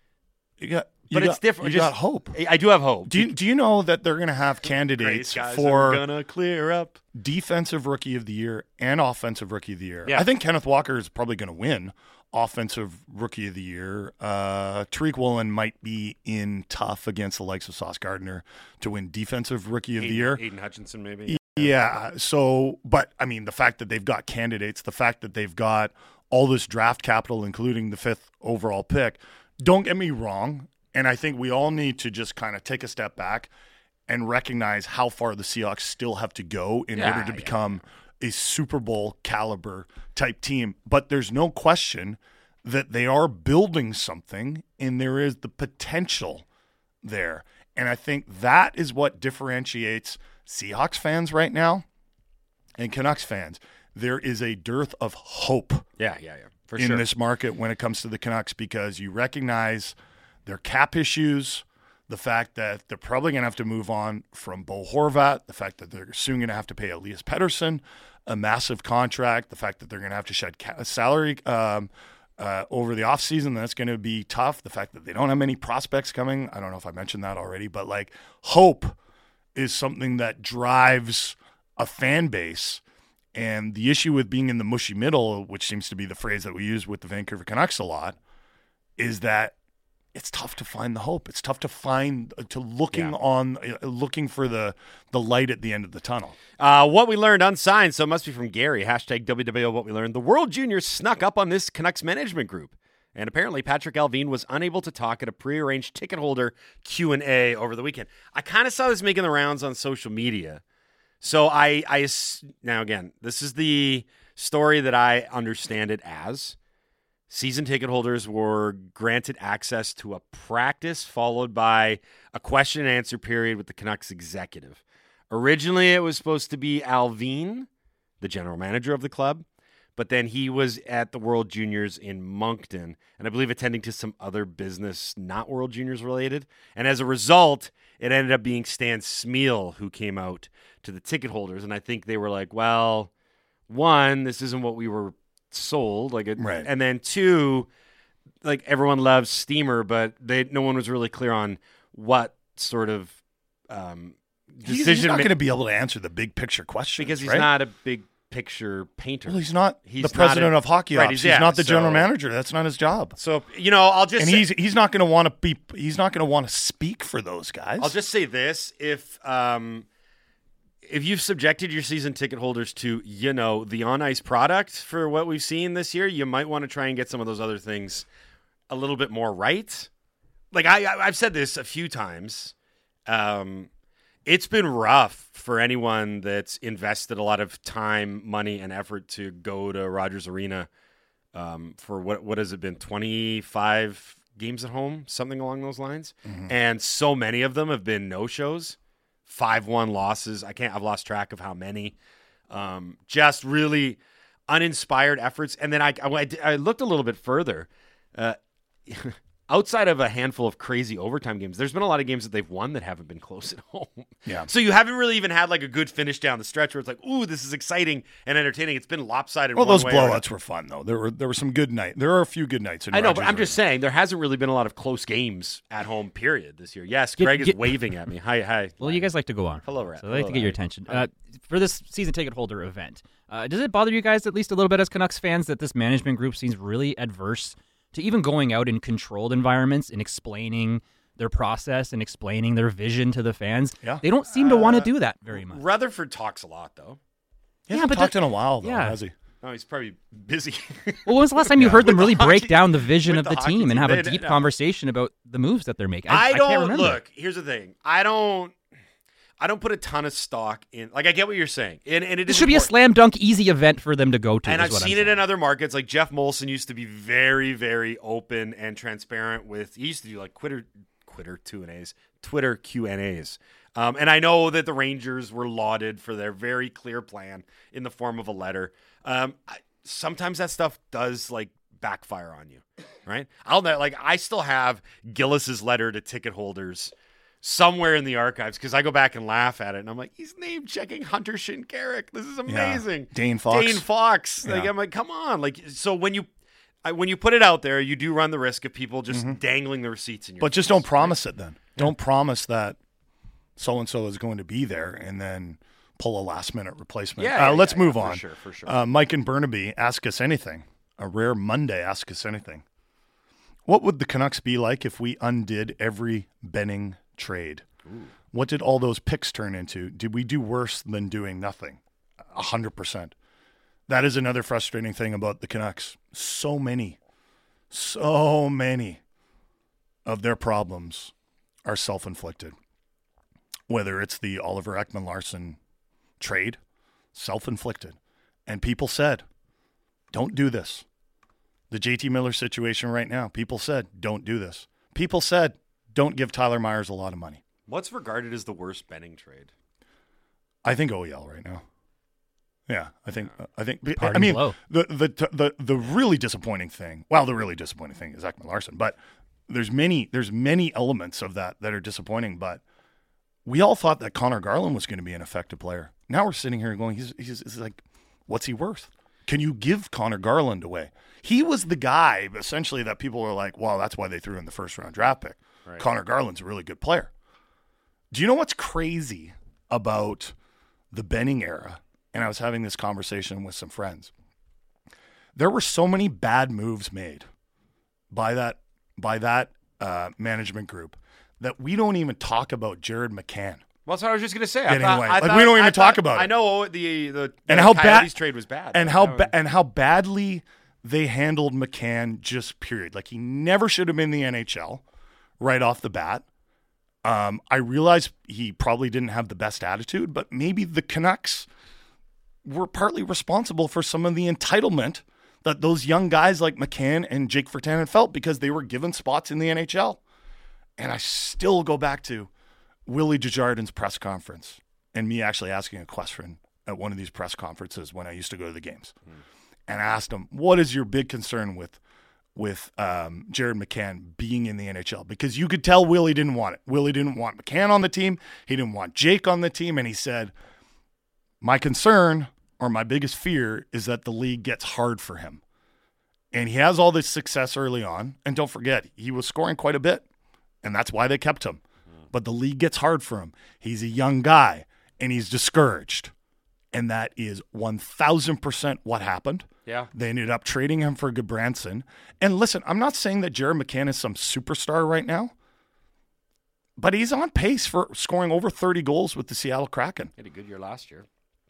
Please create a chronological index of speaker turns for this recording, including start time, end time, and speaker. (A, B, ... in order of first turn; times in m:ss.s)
0:00.6-0:02.3 A
0:01.1-0:03.3 B
0:03.0-0:06.0 A
0:04.6-0:07.0 B
0:07.1-0:20.4 A
0:20.0-0:21.8 B
0:21.2-0:33.5 A
0:34.1-0:46.4 A
0:36.9-0:37.8 B
0:47.0-0:51.8 A
0:52.8-0:55.8 A
0:56.0-0:57.1 B
0:56.8-1:19.0 A
1:19.5-1:22.8 A
1:23.3-1:28.2 A
1:29.0-1:29.5 A
1:30.1-1:36.4 A
1:36.6-1:50.6 B
1:51.2-1:56.6 B
1:57.3-2:07.7 B
2:08.2-2:09.4 B
2:10.0-2:23.1 B
2:23.7-2:27.7 B
2:26.4-2:26.7 A
2:28.4-2:33.2 B
2:33.7-2:35.3 B
2:34.6-2:37.5 A
2:37.0-2:42.1 B
2:39.2-2:43.2 A
2:43.2-2:44.5 B
2:44.2-2:47.9 A
2:47.8-2:49.9 B
2:50.8-2:58.0 B
2:58.7-2:59.9 B
3:00.5-3:02.5 B
3:03.1-3:03.7 B
3:04.2-3:10.7 B
3:11.3-3:18.8 B
3:16.2-3:16.5 A
3:19.3-3:21.9 B
3:22.5-3:40.2 B
3:39.6-3:43.6 A
3:42.9-3:49.1 B
3:47.2-3:47.8 C
3:48.8-4:05.6 C
3:49.6-3:51.1 B
4:04.3-4:07.0 B
4:07.7-4:09.1 A
4:07.7-4:09.0 C
4:09.4-4:14.5 B
4:11.0-4:17.0 C
4:11.6-4:12.1 A
4:16.1-4:18.6 B
4:19.4-4:22.7 B
4:22.3-4:25.2 C
4:24.4-4:56.3 B
4:52.4-4:53.8 A
4:54.4-4:54.7 A
4:56.8-5:01.2 B
4:59.1-4:59.4 A
5:00.4-5:02.8 A
5:03.6-5:12.6 A
5:07.2-5:08.8 B
5:13.6-5:17.6 A
5:17.8-5:18.1 B
5:18.3-5:23.1 A
5:23.9-5:27.0 A
5:27.7-5:29.0 A
5:30.0-5:31.1 A
5:31.6-5:32.6 A
5:33.7-5:35.6 A
5:36.2-5:36.6 A
5:37.1-5:39.2 A
5:40.1-5:40.8 A
5:41.7-5:47.4 A
5:47.7-5:49.5 B
5:50.6-5:51.6 A
5:52.7-6:02.6 A
5:54.0-5:54.6 C
6:03.4-6:17.1 A
6:18.1-6:20.3 A
6:20.9-6:24.1 A
6:25.3-6:27.3 A
6:28.1-6:33.6 A
6:33.8-6:39.3 B
6:34.6-6:36.3 A
6:37.5-6:38.1 A
6:38.7-6:44.8 A
6:45.4-6:46.2 A
6:47.0-6:51.5 A
6:52.4-7:00.0 A
7:00.8-7:02.3 A
7:02.8-7:09.0 A
7:09.7-7:11.8 A
7:12.3-7:20.3 A
7:21.4-7:25.4 A
7:26.3-7:30.0 A
7:30.6-7:31.6 A
7:32.1-7:36.1 A
7:36.7-7:45.3 A
7:39.6-7:39.9 B
7:46.8-7:50.1 A
7:50.2-7:51.1 B